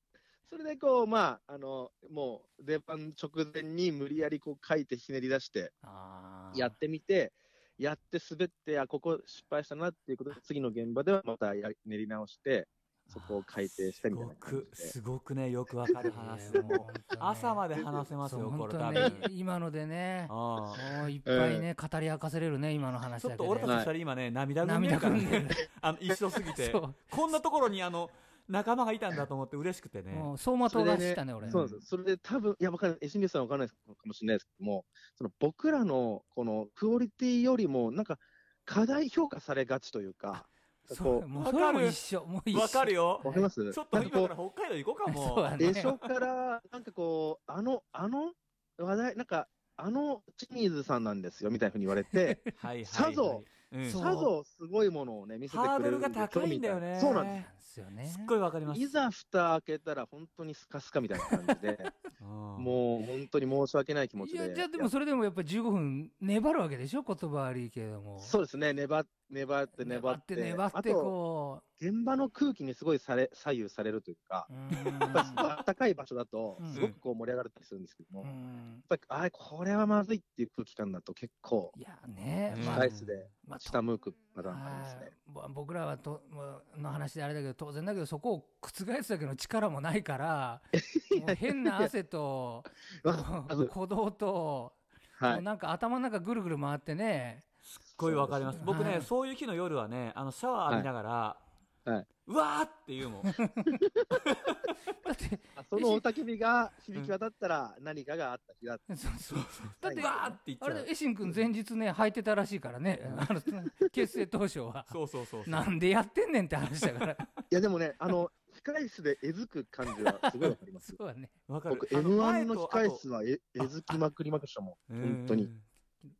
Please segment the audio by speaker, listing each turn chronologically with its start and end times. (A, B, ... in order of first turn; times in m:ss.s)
0:00.5-0:05.7 A
0:05.8-0:06.8 B
0:06.5-0:14.9 A
0:13.1-0:19.3 C
0:15.9-0:16.8 A
0:16.0-0:17.6 B
0:17.7-0:18.0 A
0:18.2-0:23.8 B
0:20.3-0:20.8 C
0:21.2-0:21.7 A
0:23.2-0:30.3 C
0:23.6-0:23.9 A
0:24.6-0:25.7 B
0:26.4-0:27.1 B
0:30.1-0:31.6 B
0:30.7-0:41.2 A
0:31.4-0:31.8 C
0:40.9-0:43.5 B
0:41.3-0:42.0 C
0:42.5-0:46.0 C
0:43.2-0:44.3 A
0:45.1-0:45.9 B
0:45.6-0:57.4 A
0:52.1-0:52.5 B
0:52.5-0:54.0 C
0:53.8-0:54.3 B
0:55.5-0:57.5 C
0:57.0-0:58.3 B
0:58.1-0:58.9 C
0:58.6-1:01.9 A
1:02.2-1:02.8 C
1:02.6-1:04.9 A
1:04.2-1:08.3 B
1:08.2-1:11.1 A
1:09.8-1:11.6 B
1:11.8-1:18.3 A
1:14.5-1:15.4 B
1:16.6-1:16.8 B
1:16.7-1:17.0 C
1:18.2-1:18.8 B
1:18.9-1:21.7 A
1:21.7-1:22.9 B
1:22.5-1:23.1 C
1:22.6-1:25.1 A
1:23.4-1:23.9 B
1:24.4-1:37.4 B
1:30.8-1:31.9 A
1:33.0-1:33.7 A
1:35.2-1:35.4 A
1:37.7-1:41.4 C
1:38.0-1:38.7 A
1:38.6-1:39.1 B
1:42.2-1:43.3 C
1:43.2-1:43.8 B
1:44.2-1:44.6 C
1:45.0-1:46.0 B
1:45.6-1:48.9 A
1:48.9-1:57.2 B
1:49.3-1:50.9 C
1:49.8-1:50.3 A
1:54.9-1:55.7 C
1:57.5-2:01.0 A
1:59.9-2:01.3 B
2:01.5-2:03.0 C
2:01.7-2:05.5 A
2:03.6-2:03.9 C
2:04.9-2:05.6 C